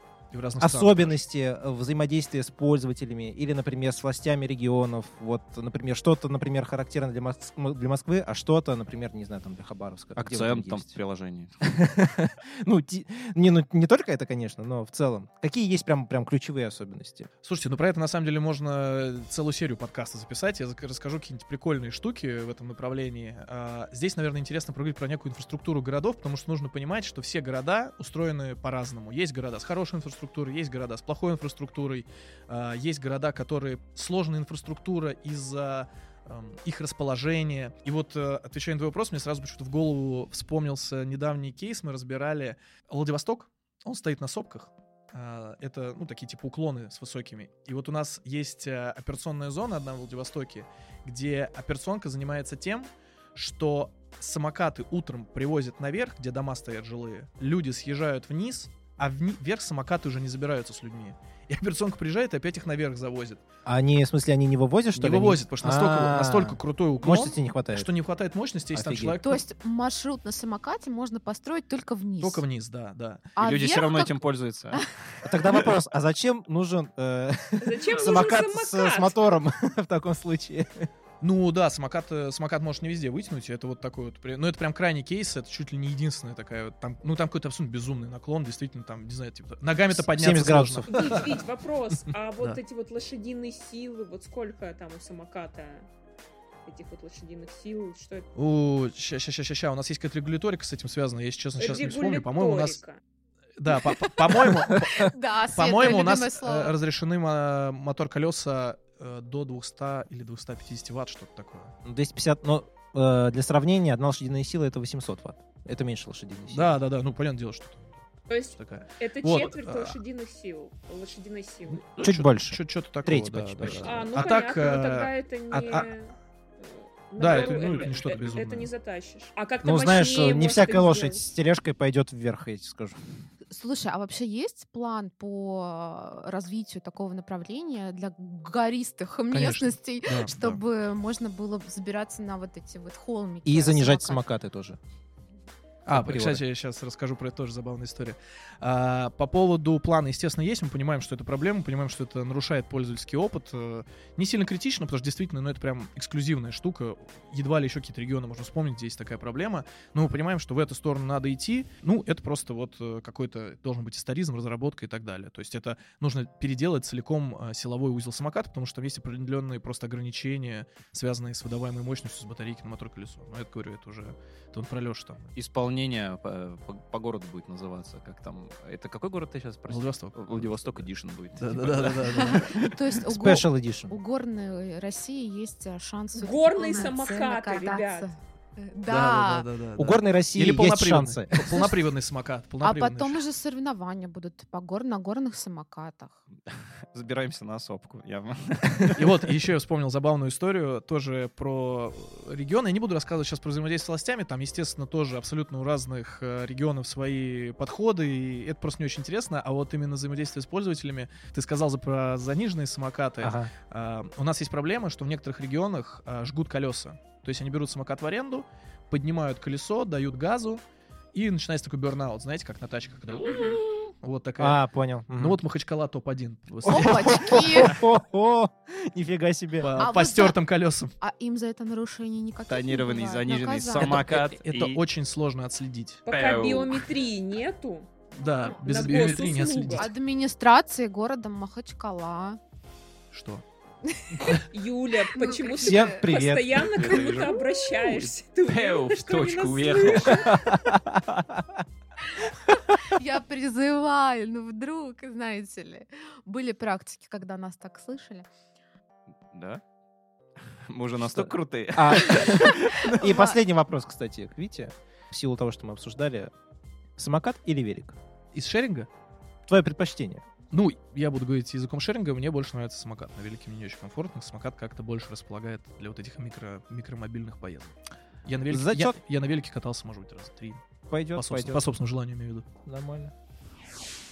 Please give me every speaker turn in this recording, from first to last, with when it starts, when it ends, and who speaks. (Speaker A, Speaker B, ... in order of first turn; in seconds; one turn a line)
Speaker A: 0.3-1.2
Speaker B: 0.6-10.9
Speaker C: 10.2-11.5
Speaker B: 11.6-17.3
Speaker A: 17.4-63.4
Speaker B: 63.7-67.9
Speaker A: 65.0-69.4
Speaker B: 68.7-69.2
Speaker D: 69.2-72.4
Speaker A: 72.2-73.3
Speaker D: 73.4-74.2
Speaker C: 73.4-74.9
Speaker B: 75.2-80.9
Speaker E: 77.6-79.4
Speaker A: 81.2-91.4
Speaker B: 89.9-91.3
Speaker E: 90.9-95.9
Speaker E: 96.7-98.3
Speaker A: 98.3-102.8
Speaker E: 101.6-103.0
Speaker A: 103.6-111.8
Speaker D: 104.8-106.8
Speaker B: 111.8-116.8
Speaker A: 116.5-120.0
Speaker E: 118.3-121.9
Speaker A: 121.7-125.9
Speaker B: 122.0-124.1
Speaker E: 123.7-131.2
Speaker A: 127.2-128.7
Speaker B: 129.6-133.0
Speaker D: 133.5-144.2
Speaker A: 139.3-140.6
Speaker B: 143.4-144.8
Speaker B: 145.9-146.4
Speaker A: 145.9-175.3
Speaker C: 175.3-182.7
Speaker A: 179.7-182.6
Speaker D: 182.1-189.5
Speaker B: 183.1-184.0
Speaker E: 186.2-188.1
Speaker A: 188.9-193.2
Speaker B: 189.8-191.7
Speaker D: 192.6-196.2
Speaker C: 196.9-199.1
Speaker A: 198.9-220.6
Speaker B: 213.2-213.5
Speaker A: 221.1-224.6
Speaker B: 224.4-225.4
Speaker A: 225.1-227.4
Speaker D: 226.7-227.8
Speaker B: 226.7-229.8
Speaker A: 229.6-230.9
Speaker D: 229.8-230.4
Speaker D: 231.0-234.0
Speaker C: 232.5-234.8
Speaker A: 233.8-236.0
Speaker E: 236.1-239.9
Speaker C: 236.1-236.9
Speaker A: 238.1-239.9
Speaker D: 239.7-242.4
Speaker A: 243.1-243.4
Speaker D: 243.8-244.4
Speaker A: 244.2-244.4
Speaker E: 244.4-250.5
Speaker D: 245.1-246.1
Speaker B: 245.6-246.8
Speaker C: 246.5-250.3
Speaker B: 250.1-251.6
Speaker D: 252.7-258.3
Speaker C: 259.3-259.6
Speaker C: 260.7-262.9
Speaker B: 261.1-266.3
Speaker D: 262.1-263.4
Speaker B: 267.0-268.0
Speaker A: 268.3-268.9
Speaker B: 269.5-270.2
Speaker A: 270.5-280.6
Speaker B: 278.5-279.0
Speaker B: 280.9-281.7
Speaker A: 281.1-282.5
Speaker B: 282.6-283.1